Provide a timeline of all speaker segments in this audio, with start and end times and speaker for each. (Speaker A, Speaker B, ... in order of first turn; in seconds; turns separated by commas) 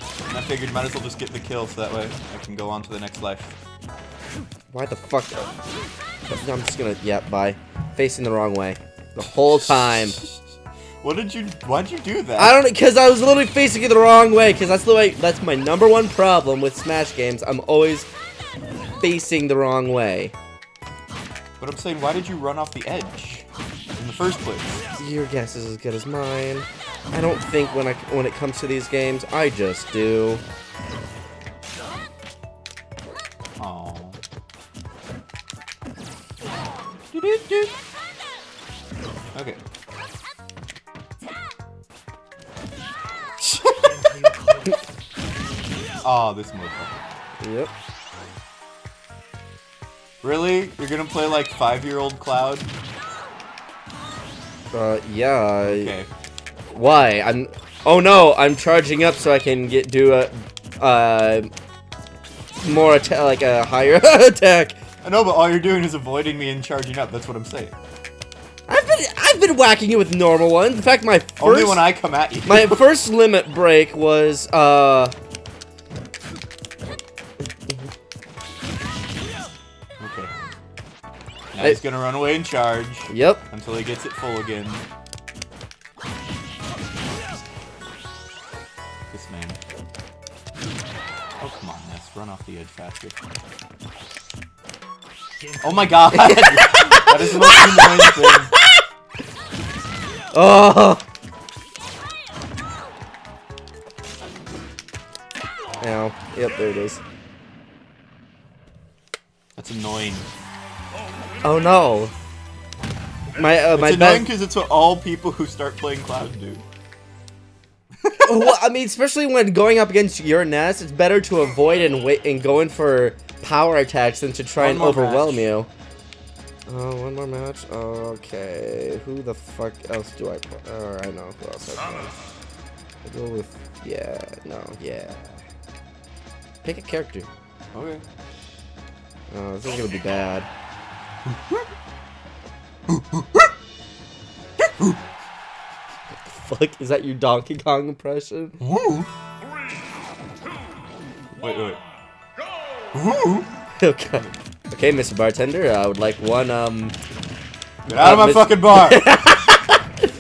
Speaker A: 0.3-3.5, Speaker B: 4.7-5.5, Speaker B: 6.3-10.2, Speaker A: 9.3-10.5, Speaker A: 11.0-12.6, Speaker B: 12.4-18.1, Speaker B: 19.0-20.3, Speaker A: 21.6-23.4, Speaker A: 24.0-24.8, Speaker B: 25.0-30.4, Speaker A: 33.6-34.2, Speaker A: 37.1-37.7, Speaker A: 39.3-39.6, Speaker A: 46.0-47.0, Speaker B: 47.4-47.7, Speaker A: 50.2-52.7, Speaker B: 54.7-55.9, Speaker A: 55.6-56.1, Speaker B: 56.7-61.5, Speaker B: 62.6-64.8, Speaker A: 65.0-67.8, Speaker B: 68.7-71.9, Speaker A: 71.4-72.8, Speaker B: 72.5-75.1, Speaker A: 80.0-80.3, Speaker A: 81.5-84.8, Speaker B: 83.1-83.4, Speaker A: 89.1-89.6, Speaker A: 91.4-93.2, Speaker A: 95.6-98.5, Speaker B: 96.1-98.8, Speaker B: 100.3-101.0, Speaker B: 105.8-107.0, Speaker A: 109.6-110.3, Speaker B: 111.4-112.1, Speaker B: 113.4-114.3, Speaker A: 113.7-116.7, Speaker A: 118.0-118.5, Speaker B: 118.2-125.7, Speaker A: 124.6-125.5, Speaker B: 126.7-132.2, Speaker B: 133.0-135.4, Speaker B: 136.6-137.3, Speaker A: 137.7-138.0, Speaker B: 139.3-140.5, Speaker A: 141.3-141.6, Speaker A: 142.9-143.5, Speaker B: 146.3-148.6, Speaker A: 148.6-149.1, Speaker A: 151.4-151.8, Speaker A: 152.9-153.5, Speaker B: 153.8-156.9, Speaker A: 157.9-159.1, Speaker B: 157.9-159.7